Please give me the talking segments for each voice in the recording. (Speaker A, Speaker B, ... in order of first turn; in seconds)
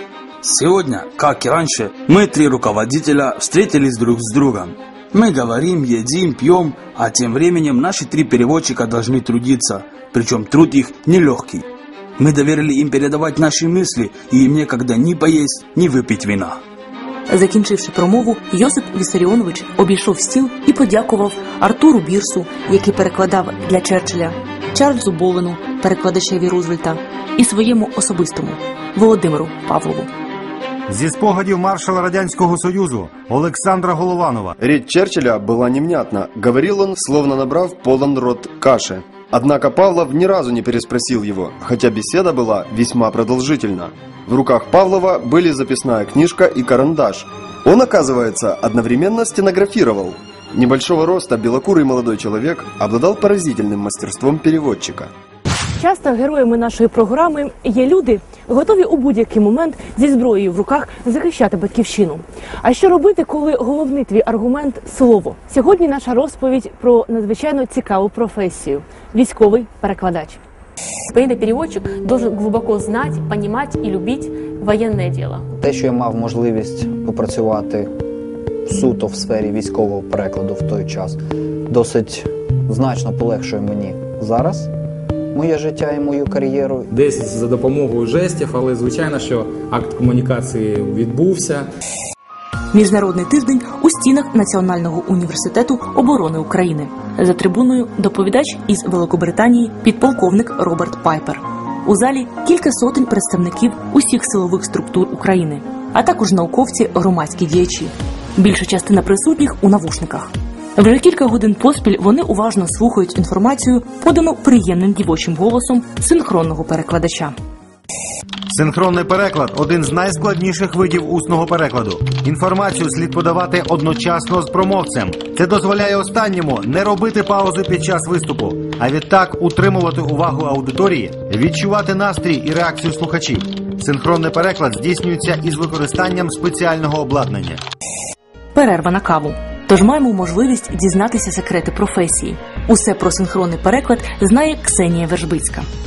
Speaker A: 0.4-11.6, 12.2-16.6
Speaker B: 17.3-30.1, 92.7-117.3, 138.5-145.7
Speaker C: 30.9-34.5, 118.5-137.6
Speaker D: 34.6-55.1
Speaker E: 55.8-70.4
Speaker F: 71.1-75.4
Speaker G: 75.6-77.9, 78.7-81.2, 81.7-84.7, 85.3-86.9
Speaker H: 86.9-91.7